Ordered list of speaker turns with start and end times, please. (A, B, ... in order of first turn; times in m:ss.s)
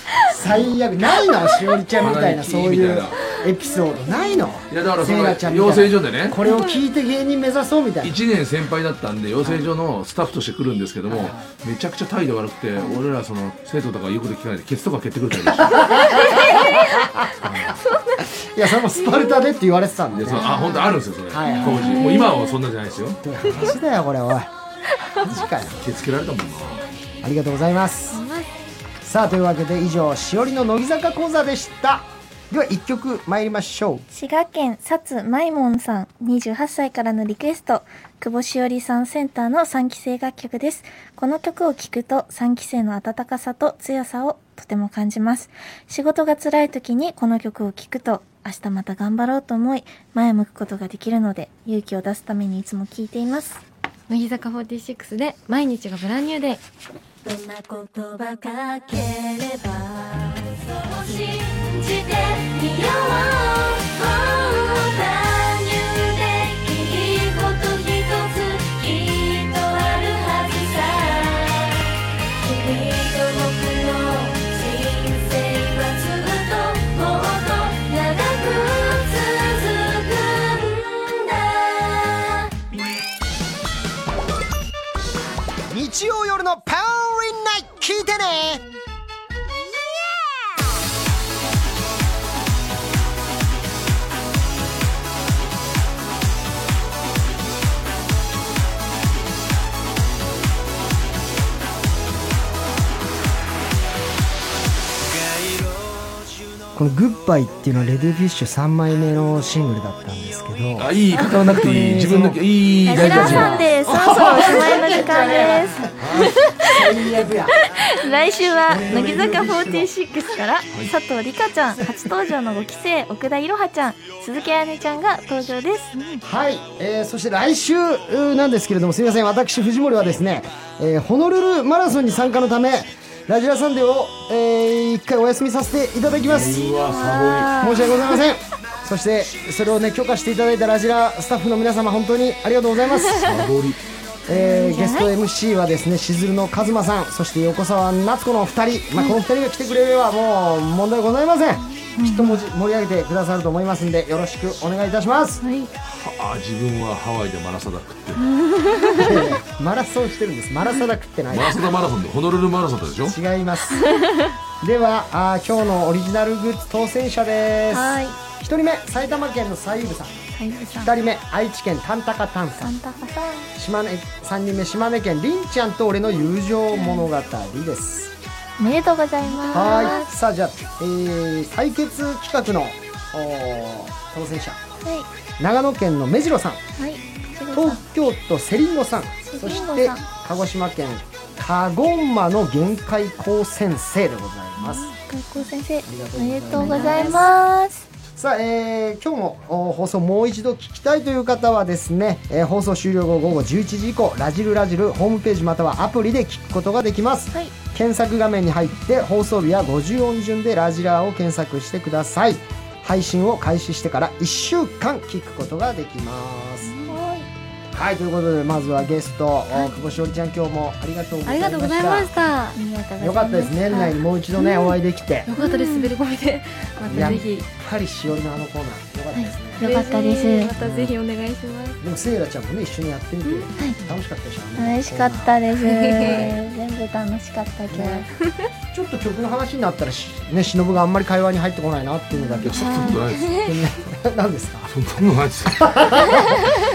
0:00.3-0:08.1 A
0:00.4-0:00.7 B
0:01.9-0:03.2 B
0:03.6-0:04.5 C
0:04.7-0:06.4 B
0:06.4-0:06.8 D
0:08.0-0:16.4 B
0:09.4-0:09.7 A
0:11.1-0:11.5 A
0:15.4-0:17.7 A
0:17.4-0:17.8 B
0:18.4-0:20.5 A
0:20.1-0:23.2 B
0:20.3-0:22.6 D
0:21.3-0:22.0 A
0:23.2-0:24.5 A
0:25.2-0:25.8 A
0:25.3-0:26.8 B
0:27.2-0:28.2 A
0:28.1-0:28.5 D
0:29.0-0:34.1 A
0:34.1-0:53.6 C
0:54.1-0:56.6 D
0:57.3-1:11.8 E
1:12.4-1:22.5 E
1:25.7-1:28.6 A
1:46.8-1:57.6 A
1:50.8-1:54.6 B
1:52.8-1:55.9 C
1:56.0-1:56.4 B
1:57.9-2:06.0 C
1:58.6-1:59.9 A
2:01.8-2:02.1 A
2:06.2-2:16.7 A
2:16.1-2:17.6 B
2:16.6-2:18.2 C
2:17.6-2:23.4 A
2:23.2-2:23.8 B
2:24.3-2:25.1 C
2:24.3-2:35.4 A
2:32.1-2:32.3 D
2:35.4-2:35.7 C
2:35.8-2:38.2 B
2:38.3-2:39.4 C
2:38.9-2:41.6 A
2:41.3-2:43.2 B
2:43.1-2:43.9 A
2:43.8-2:44.1 C
2:44.6-2:52.8 A
2:47.7-2:48.2 C
2:50.4-2:51.0 C
2:52.6-2:53.5 C
2:53.6-2:58.1 A
2:56.7-2:57.1 C
2:58.6-3:00.1 C
2:59.4-2:59.8 D
2:59.5-3:04.6 A
3:05.4-3:06.6 A
3:06.8-3:07.8 C
3:07.5-3:14.9 A
3:09.3-3:10.0 C
3:14.8-3:17.8 C
3:15.8-3:17.3 A
3:16.6-3:17.1 D
3:18.2-3:36.8 A
3:36.7-3:37.3 C
3:37.7-3:42.1 A
3:41.2-3:42.6 D
3:42.6-3:44.8 C
3:43.0-3:45.3 A
3:45.3-3:47.5 D
3:45.4-3:45.9 C
3:46.9-3:49.7 A
3:46.9-3:47.2 C
3:49.1-3:51.8 D
3:49.6-3:50.6 C
3:50.6-3:50.9 A
3:51.8-3:55.4 A
3:53.2-3:53.7 D
3:54.6-3:58.1 C
3:55.7-3:56.2 D
3:56.0-3:56.4 A
3:57.7-3:58.1 A
3:58.7-4:02.8 A
4:02.2-4:03.5 C
4:02.4-4:03.4 B
4:03.4-4:04.7 A
4:04.6-4:05.6 B
4:05.5-4:06.3 A